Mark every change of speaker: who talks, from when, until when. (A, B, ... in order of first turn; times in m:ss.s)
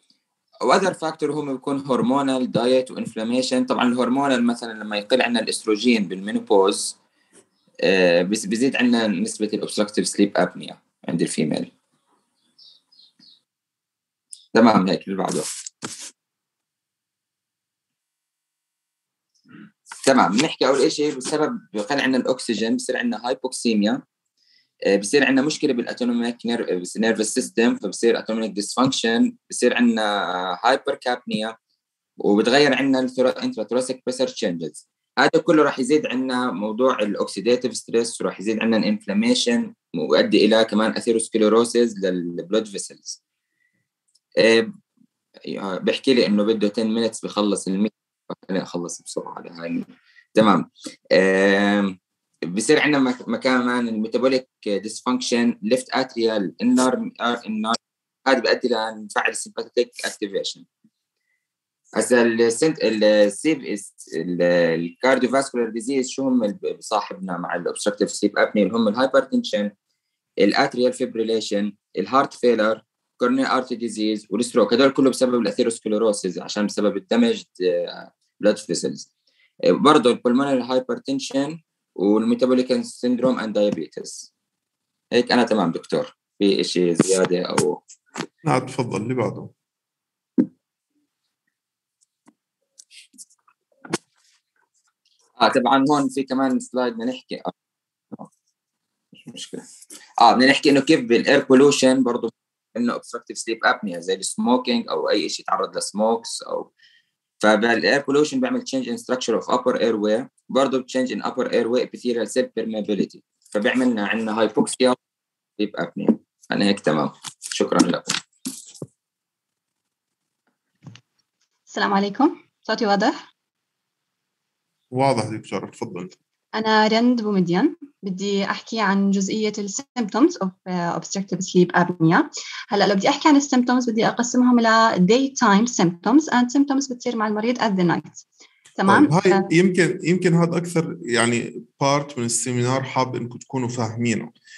0:00.6-0:07.0 A
0:07.8-0:11.7 A
0:14.5-0:15.4 A
0:20.0-0:24.0 A
0:24.9-0:31.5 A
0:32.2-0:43.2 A
0:44.4-0:44.7 A
0:45.5-0:52.0 A
0:52.5-1:00.6 A
1:02.0-1:09.7 A
1:10.4-1:19.1 A
1:19.7-1:24.3 A
1:25.1-1:27.8 A
1:28.4-1:29.5 B
1:35.4-1:37.5 A
1:39.2-1:39.6 A
1:40.2-1:46.7 A
1:47.4-1:55.0 A
1:55.6-1:58.2 A
2:01.7-2:03.1 C
2:04.9-2:06.1 B
2:06.5-2:18.2 C
2:18.8-2:19.5 C
2:18.9-2:24.3 B